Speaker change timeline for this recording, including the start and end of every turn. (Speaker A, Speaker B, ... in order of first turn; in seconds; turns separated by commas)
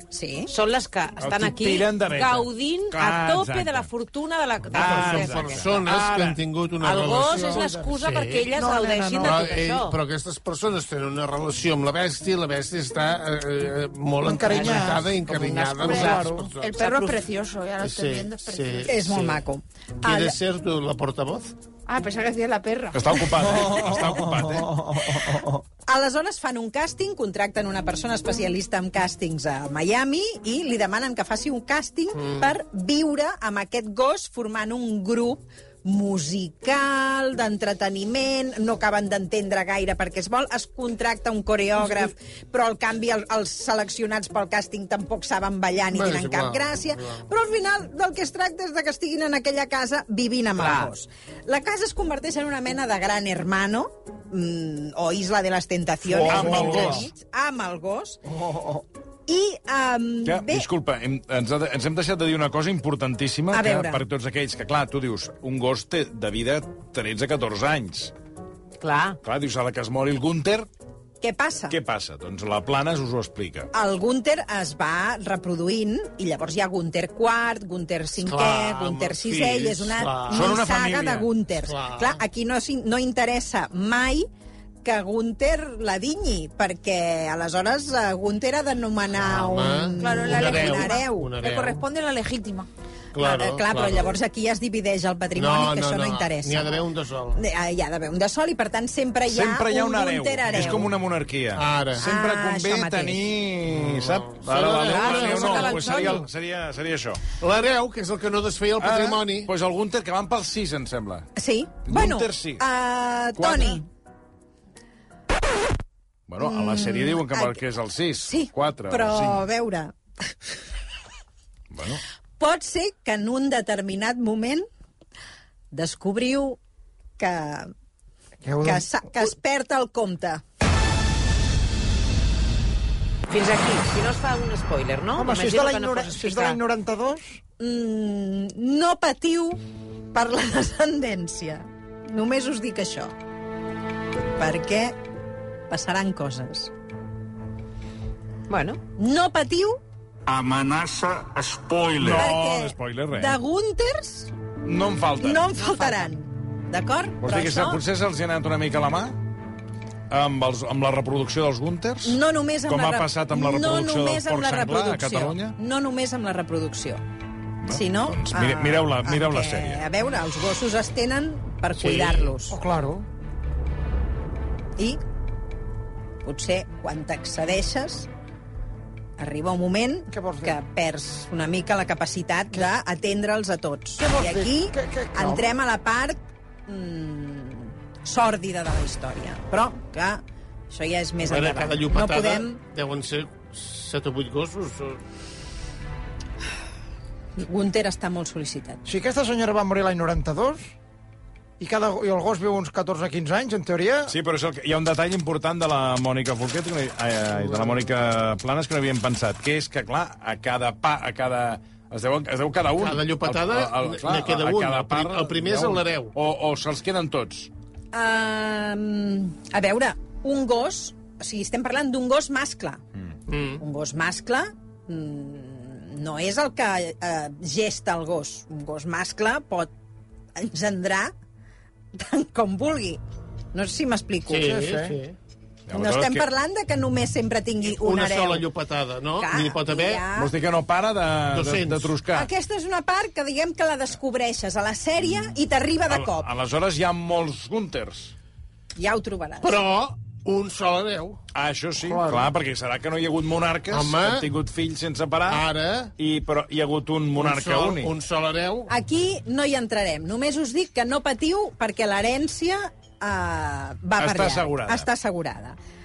Speaker A: 0.1-0.5, Speaker B: 0.5-5.6, Speaker C: 1.2-3.9, Speaker C: 4.7-6.4, Speaker D: 4.7-8.6, Speaker B: 6.8-10.0, Speaker E: 8.5-9.5, Speaker D: 9.2-17.2, Speaker E: 14.2-15.1, Speaker B: 14.5-14.9, Speaker F: 15.3-19.0, Speaker E: 15.8-16.5, Speaker B: 15.8-16.2, Speaker D: 17.8-19.4, Speaker A: 18.9-20.4, Speaker D: 20.0-21.5, Speaker F: 21.9-23.3, Speaker C: 22.9-24.7, Speaker E: 23.4-25.6, Speaker A: 25.9-58.2, Speaker D: 32.2-32.5, Speaker D: 45.9-47.2, Speaker B: 50.5-50.9, Speaker C: 56.1-57.1, Speaker D: 56.2-57.0, Speaker E: 56.2-56.9, Speaker E: 58.2-58.8, Speaker A: 59.3-60.6, Speaker C: 60.2-68.1, Speaker A: 63.5-64.0, Speaker B: 68.8-69.2, Speaker C: 69.2-70.7, Speaker A: 71.2-71.8, Speaker C: 71.7-73.7, Speaker A: 73.7-84.3, Speaker D: 78.2-80.6, Speaker C: 80.3-81.3, Speaker D: 81.6-82.2, Speaker A: 84.8-91.3, Speaker D: 89.2-91.8, Speaker F: 90.0-92.7, Speaker D: 93.1-94.1, Speaker A: 93.2-96.8, Speaker D: 95.3-97.4, Speaker A: 97.3-100.9, Speaker C: 99.3-107.2, Speaker D: 100.5-100.9, Speaker D: 101.5-102.0, Speaker A: 102.0-103.2, Speaker D: 103.7-106.2, Speaker B: 104.8-106.2, Speaker D: 107.4-109.5, Speaker C: 108.8-111.3, Speaker A: 111.4-113.8, Speaker C: 111.8-112.6, Speaker C: 113.3-113.8, Speaker C: 116.3-119.4, Speaker A: 116.4-117.6, Speaker A: 118.2-119.9, Speaker C: 121.7-122.0, Speaker A: 122.4-124.7, Speaker A: 125.7-126.6, Speaker A: 127.2-127.7, Speaker E: 128.4-128.9, Speaker A: 128.6-130.4, Speaker B: 133.3-136.6, Speaker E: 135.2-137.4, Speaker A: 137.6-139.6, Speaker A: 140.1-143.1, Speaker A: 144.4-144.9, Speaker A: 145.7-146.7, Speaker B: 148.5-148.8, Speaker A: 149.0-149.8, Speaker G: 150.3-152.3, Speaker C: 151.9-153.4, Speaker A: 152.1-154.3, Speaker C: 154.6-155.4, Speaker A: 155.2-157.8, Speaker B: 155.6-156.1, Speaker C: 157.2-159.2, Speaker C: 160.1-165.6, Speaker A: 162.0-167.0, Speaker C: 167.6-169.8, Speaker A: 167.7-172.6, Speaker D: 171.8-172.4, Speaker E: 172.5-173.1, Speaker A: 176.2-178.1, Speaker A: 179.2-192.6, Speaker E: 180.1-180.6, Speaker E: 184.0-185.5, Speaker D: 191.2-195.0, Speaker A: 197.4-198.8, Speaker E: 198.8-200.7, Speaker E: 201.6-204.1, Speaker C: 204.1-217.5, Speaker D: 207.3-207.9, Speaker D: 212.7-216.1, Speaker A: 217.9-222.8, Speaker D: 223.3-223.6, Speaker A: 223.6-229.7, Speaker A: 230.4-231.1, Speaker A: 231.9-233.0, Speaker A: 233.5-234.6, Speaker D: 234.2-235.2, Speaker E: 234.5-234.9, Speaker C: 235.7-236.2, Speaker A: 235.7-238.5, Speaker D: 237.6-240.0, Speaker A: 239.2-240.3, Speaker C: 240.1-242.3, Speaker D: 241.3-241.9, Speaker A: 242.1-246.3, Speaker C: 245.9-248.1, Speaker A: 248.8-249.6, Speaker D: 249.4-251.2, Speaker C: 251.3-255.4, Speaker D: 251.8-252.3, Speaker D: 253.7-254.3, Speaker D: 255.3-255.9, Speaker C: 256.0-257.9, Speaker D: 257.1-258.7, Speaker A: 258.7-265.6, Speaker C: 264.0-264.9